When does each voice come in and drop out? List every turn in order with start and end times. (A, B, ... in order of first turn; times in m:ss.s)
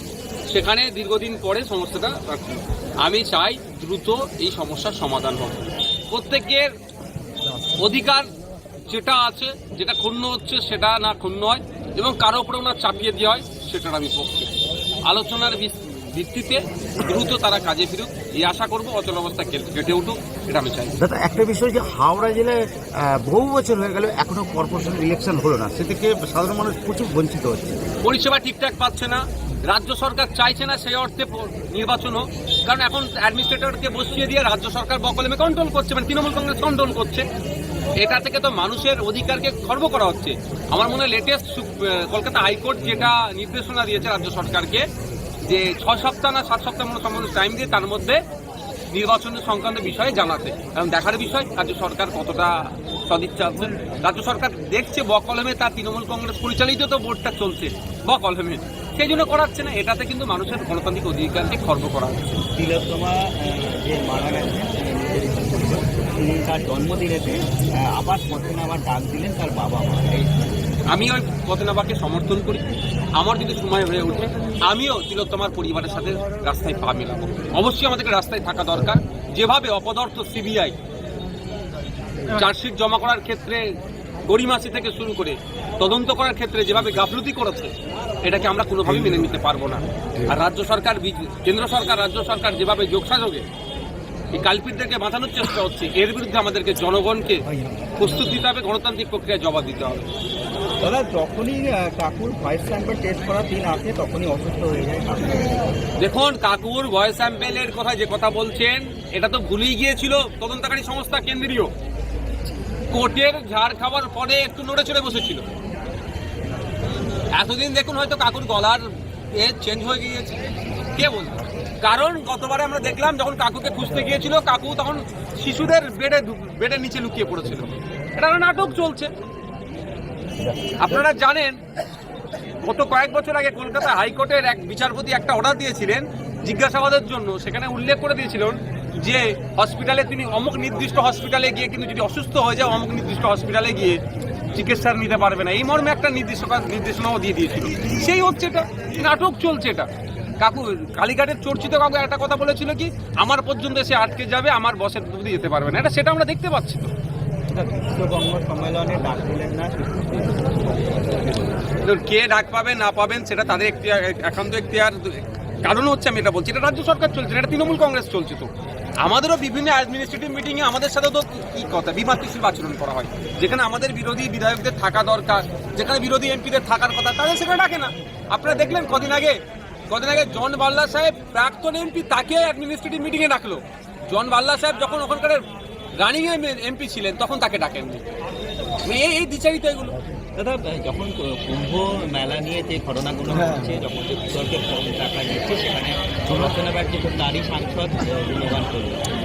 0:00.5-0:06.7 A
0:07.8-0:08.3 A
0:08.9-0:14.5 A
0:15.0-0:21.0 A
0:21.0-0:27.8 B
0:28.0-0:37.3 A
0:38.0-0:44.9 A
0:45.4-0:48.2 A
0:48.9-1:02.3 A
1:02.6-1:10.5 C
1:10.9-1:12.6 A
1:13.2-1:20.8 A
1:22.3-1:23.6 A
1:24.3-1:27.7 A
1:28.2-1:33.4 A
1:34.3-1:37.4 A
1:37.6-1:37.9 C
1:38.0-1:40.1 A
1:40.8-1:45.7 C
1:46.0-1:51.7 A
1:52.9-1:55.4 A
1:57.3-2:00.4 A
2:01.0-2:09.1 A
2:10.8-2:11.6 A
2:12.6-2:24.0 A
2:24.6-2:29.9 A
2:30.4-2:36.9 A
2:37.5-2:41.5 C
2:41.8-2:48.5 A
2:49.0-2:59.4 A
2:59.9-3:05.4 A
3:06.0-3:08.0 A
3:08.8-3:10.0 A
3:10.4-3:19.0 C